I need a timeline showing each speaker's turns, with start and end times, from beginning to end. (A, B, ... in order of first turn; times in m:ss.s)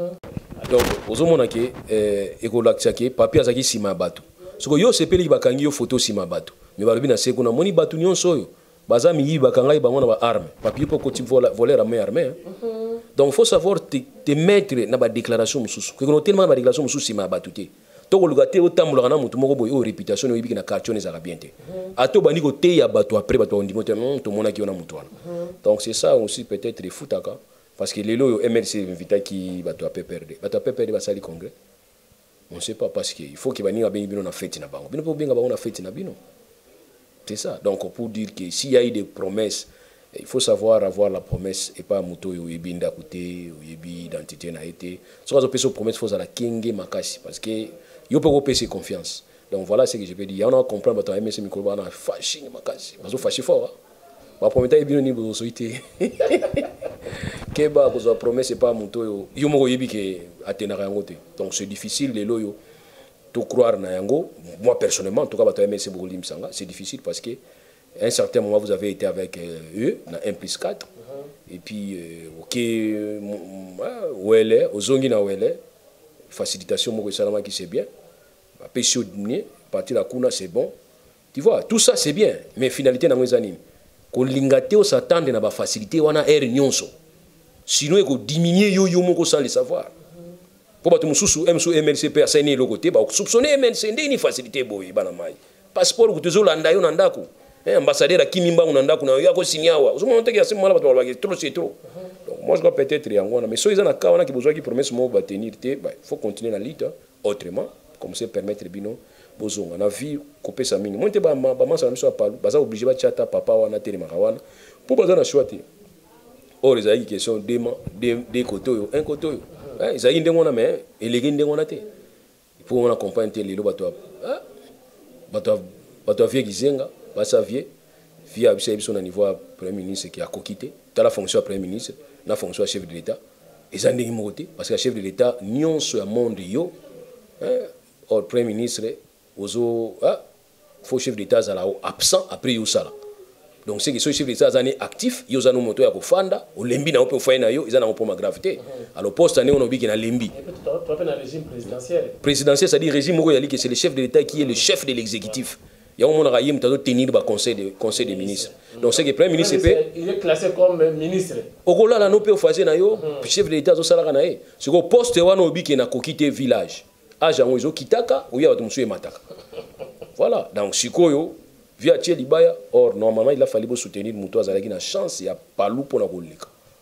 0:00.6-0:12.4 A
0:12.5-0:13.0 B
0:13.2-0:31.5 A
0:32.5-0:36.2 A
0:37.2-0:53.7 A
0:54.4-1:02.6 A
1:03.3-1:07.4 A
1:08.0-1:10.9 A
1:11.5-1:15.6 A
1:16.3-1:17.9 A
1:18.6-1:20.7 A
1:21.3-1:23.6 A
1:24.1-1:26.9 A
1:27.7-1:29.9 A
1:30.8-1:55.6 A
1:56.6-2:01.8 A
2:02.6-2:04.4 A
2:05.3-2:07.7 A
2:08.2-2:13.2 A
2:13.7-2:16.7 A
2:17.4-2:20.2 A
2:20.8-2:22.9 A
2:23.6-2:30.3 A
2:30.3-2:32.2 B
2:32.2-2:39.8 A
2:37.9-2:41.5 B
2:41.6-2:49.2 A
2:50.2-2:56.5 A